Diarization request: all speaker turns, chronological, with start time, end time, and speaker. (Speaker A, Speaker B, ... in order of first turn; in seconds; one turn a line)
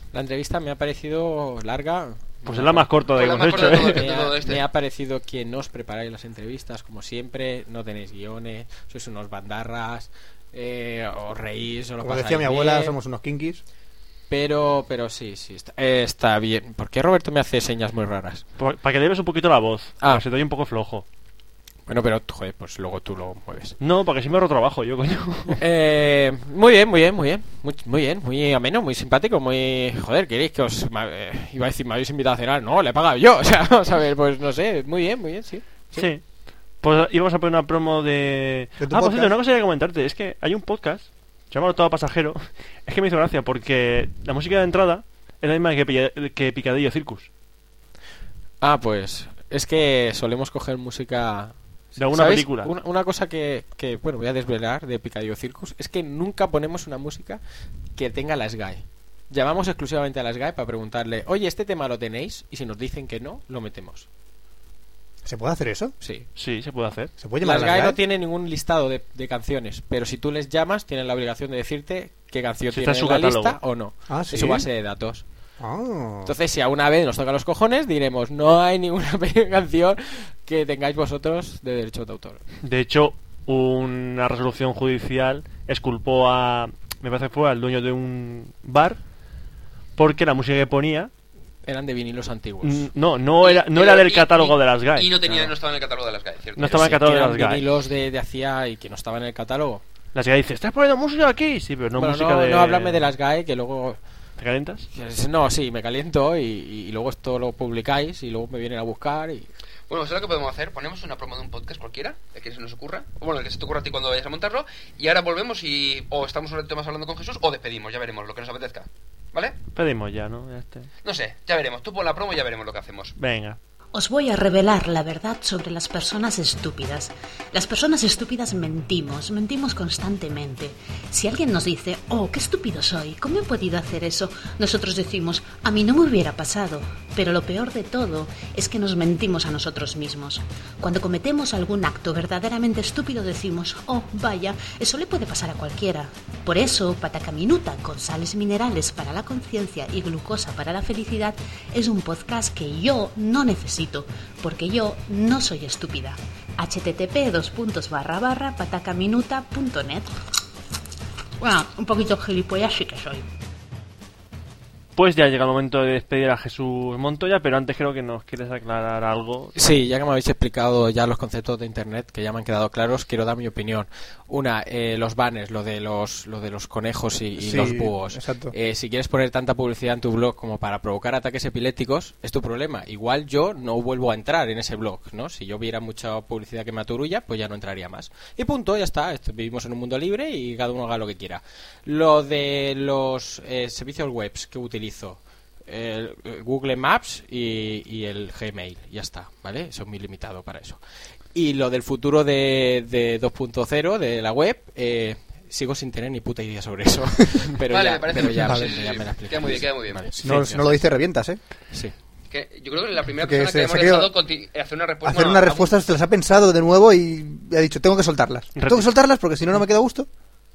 Speaker A: 0.1-2.9
Speaker B: 2.5-4.1
Speaker C: 3.1-4.6
Speaker A: 3.4-13.0
Speaker D: 12.0-13.6
Speaker A: 14.3-18.4
Speaker B: 18.6-21.1
Speaker A: 21.9-23.8
Speaker B: 23.8-25.6
Speaker A: 25.5-36.1
Speaker B: 36.0-36.2
Speaker B: 36.8-47.3
Speaker D: 38.8-39.3
Speaker A: 48.6-57.4
Speaker B: 52.0-52.7
Speaker A: 58.0-64.1
Speaker D: 65.2-65.9
Speaker A: 66.0-66.3
Speaker B: 66.4-67.1
Speaker D: 67.2-68.0
Speaker A: 67.4-75.2
Speaker B: 72.7-73.6
Speaker D: 74.1-74.7
Speaker D: 75.6-76.3
Speaker A: 76.3-82.4
Speaker B: 82.6-89.0
Speaker B: 90.0-91.1
Speaker A: 91.6-92.9
Speaker B: 92.6-95.2
Speaker C: 93.4-96.9
Speaker B: 96.6-97.7
Speaker A: 96.6-99.8
Speaker B: 100.1-103.1
Speaker A: 102.0-104.0
Speaker B: 104.4-104.9
Speaker A: 104.9-109.5
Speaker C: 109.9-119.6
Speaker B: 119.8-120.9
Speaker C: 121.0-123.1
Speaker B: 123.2-123.6
Speaker E: 123.9-160.1
Speaker E: 161.4-163.3
Speaker B: 164.9-169.6
Speaker A: 169.6-200.8
Speaker D: 177.4-178.5
Speaker A: 201.3-210.8
Speaker C: 207.7-210.1
Speaker D: 210.2-211.4
Speaker C: 212.3-215.8
Speaker D: 213.2-214.1
Speaker D: 215.1-220.1
Speaker B: 218.6-218.9